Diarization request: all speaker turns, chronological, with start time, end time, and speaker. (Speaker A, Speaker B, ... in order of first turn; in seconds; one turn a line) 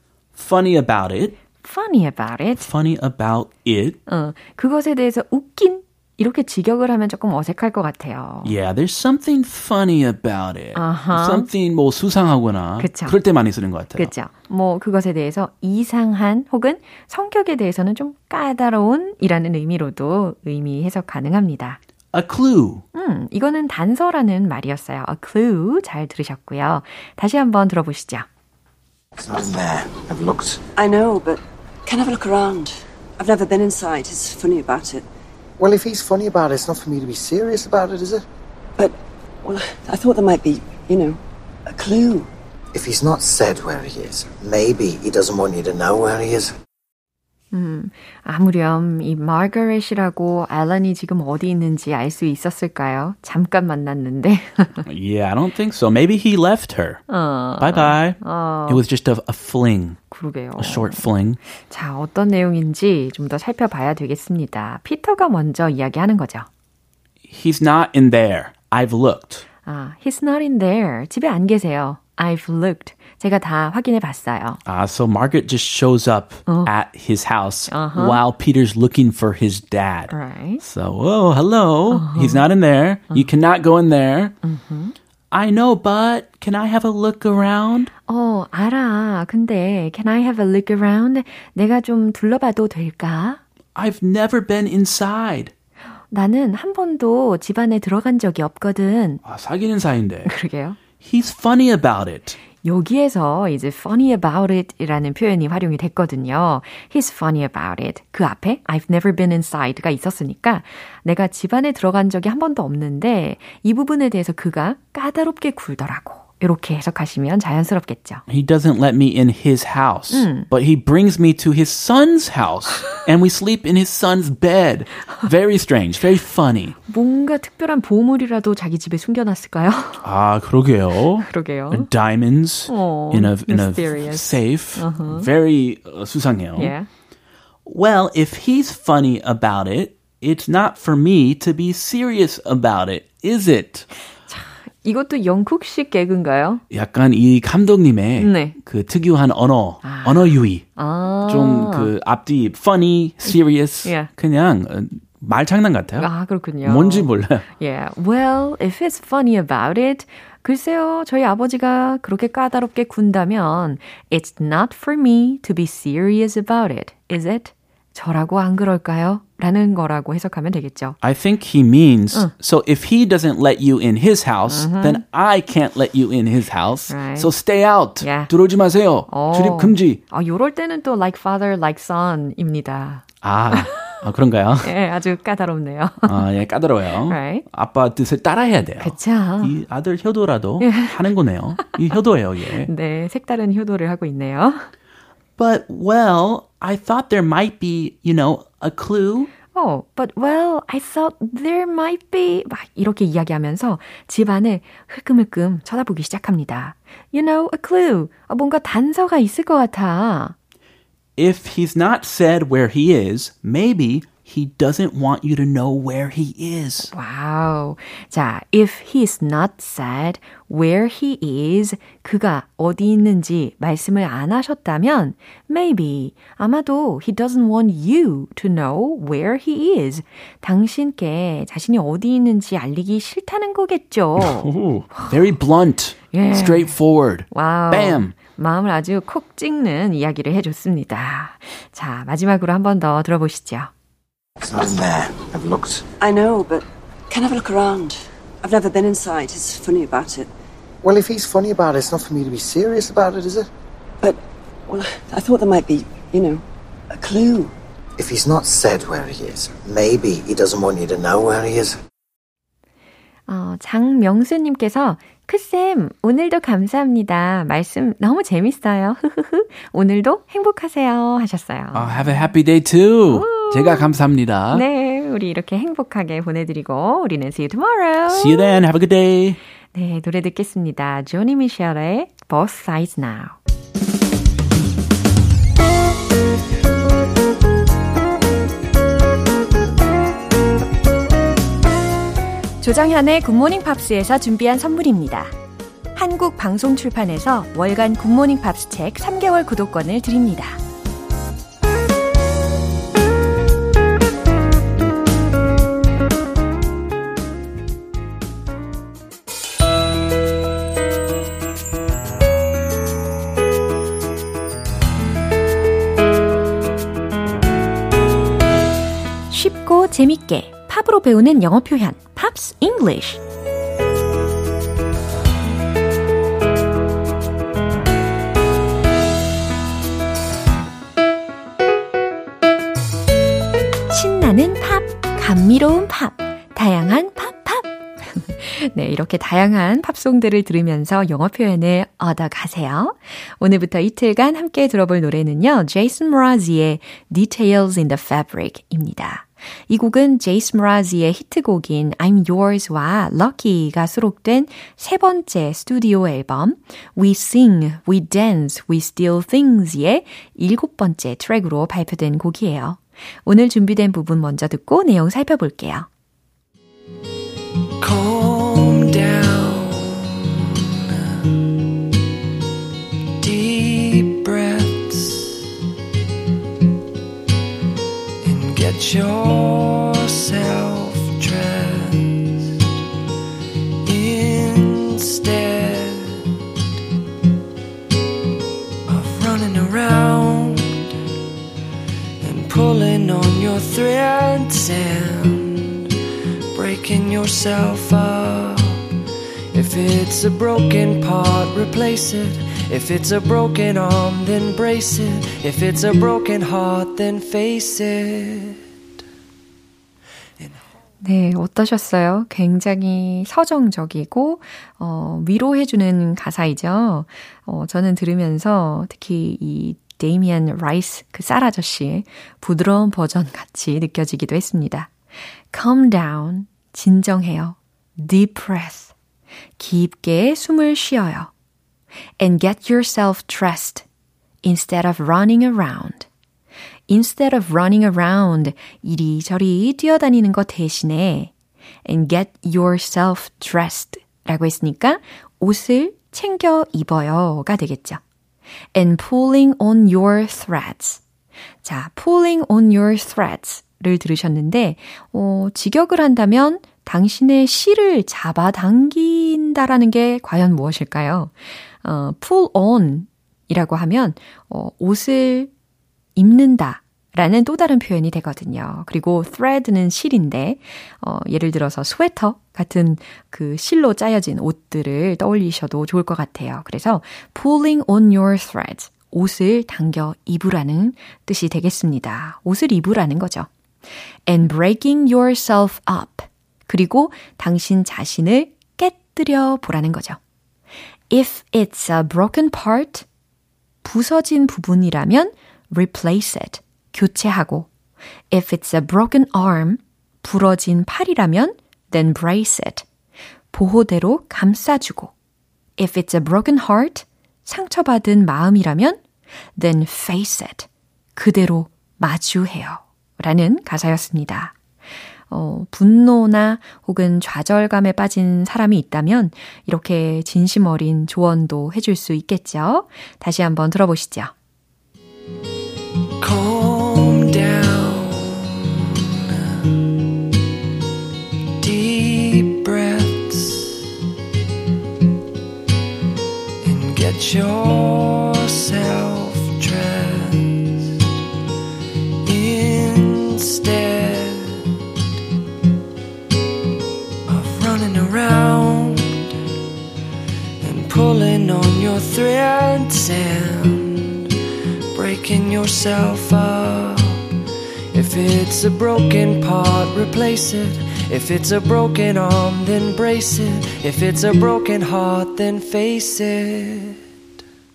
Speaker A: 0.3-1.4
Speaker B: 1.6-2.7
Speaker A: 2.6-4.0
Speaker B: 4.1-8.5
Speaker A: 8.4-14.1
Speaker B: 10.7-11.5
Speaker B: 12.8-13.2
Speaker B: 13.9-21.8
Speaker A: 22.1-22.8
Speaker B: 22.9-28.2
Speaker C: 29.2-30.6
Speaker D: 30.8-35.0
Speaker C: 35.6-38.2
Speaker D: 38.8-42.3
Speaker C: 42.7-46.5
Speaker B: 47.5-54.9
Speaker A: 54.8-57.0
Speaker B: 57.1-58.8
Speaker A: 57.6-60.0
Speaker B: 60.1-61.0
Speaker A: 60.6-61.4
Speaker B: 61.6-66.5
Speaker A: 67.3-69.5
Speaker B: 69.6-74.6
Speaker A: 74.7-84.3
Speaker B: 77.7-78.2
Speaker B: 80.1-80.6
Speaker B: 81.9-82.4
Speaker B: 84.4-84.9
Speaker A: 85.3-87.9
Speaker B: 88.1-93.4
Speaker A: 93.8-95.5
Speaker B: 96.1-99.2
Speaker A: 99.2-100.3
Speaker B: 100.2-100.8
Speaker A: 101.0-102.4
Speaker B: 102.6-118.2
Speaker A: 118.3-126.8
Speaker B: 120.1-120.5
Speaker B: 126.9-130.1
Speaker A: 130.0-136.7
Speaker B: 131.2-131.9
Speaker B: 132.7-135.3
Speaker B: 136.6-136.9
Speaker A: 137.7-143.9
Speaker B: 144.3-146.6
Speaker A: 146.7-150.7
Speaker B: 148.2-148.6
Speaker B: 149.8-151.9
Speaker A: 151.2-156.1
Speaker B: 153.2-154.1
Speaker B: 156.0-171.0
Speaker A: 156.6-157.4
Speaker A: 171.0-180.0
Speaker B: 174.5-175.0
Speaker B: 176.9-177.3
Speaker B: 178.0-178.3
Speaker B: 179.1-184.0
Speaker A: 183.2-184.7
Speaker B: 184.6-186.2
Speaker A: 186.0-192.7
Speaker B: 187.1-187.4
Speaker B: 188.8-189.6
Speaker B: 190.6-191.0
Speaker B: 192.6-194.7
Speaker A: 195.4-199.3
Speaker B: 199.5-210.3
Speaker A: 211.2-216.9
Speaker B: 216.9-235.1
Speaker A: 234.2-238.1
Speaker B: 236.1-236.7
Speaker B: 237.3-243.7
Speaker C: 244.4-245.8
Speaker D: 246.0-250.3
Speaker C: 250.8-253.5
Speaker D: 254.0-257.5
Speaker C: 258.0-261.8
Speaker B: 263.3-272.3
Speaker A: 271.7-274.6
Speaker B: 273.1-273.9
Speaker B: 274.5-278.5
Speaker A: 278.1-279.4
Speaker B: 279.7-283.4
Speaker B: 292.6-295.3
Speaker B: 295.9-300.6
Speaker B: 319.3-323.2
Speaker B: 333.9-365.9
Speaker E: 367.8-371.6
Speaker E: 373.2-375.5
Speaker E: 378.2-382.6
Speaker E: 383.8-386.4
Speaker E: 388.9-390.9
Speaker E: 392.2-395.9
Speaker E: 396.5-398.8
Speaker E: 399.5-408.6
Speaker B: 411.0-424.9
Speaker B: 425.5-428.9
Speaker B: 429.6-431.3
Speaker B: 432.2-433.8
Speaker B: 434.4-436.1
Speaker B: 436.9-441.3
Speaker B: 441.8-448.0
Speaker B: 448.7-451.0
Speaker B: 451.6-465.5
Speaker B: 466.1-483.5
Speaker B: 484.3-490.2
Speaker B: 491.1-493.1
Speaker B: 493.8-497.7
Speaker B: 498.3-502.8
Speaker B: 503.5-505.1
Speaker B: 505.8-509.0
Speaker B: 509.6-514.5
Speaker B: 515.3-524.3
Speaker E: 526.2-530.0
Speaker E: 531.6-533.9
Speaker E: 536.6-541.0
Speaker E: 542.2-544.8
Speaker E: 547.3-549.3
Speaker E: 550.6-554.3
Speaker E: 554.9-557.2
Speaker E: 557.9-567.0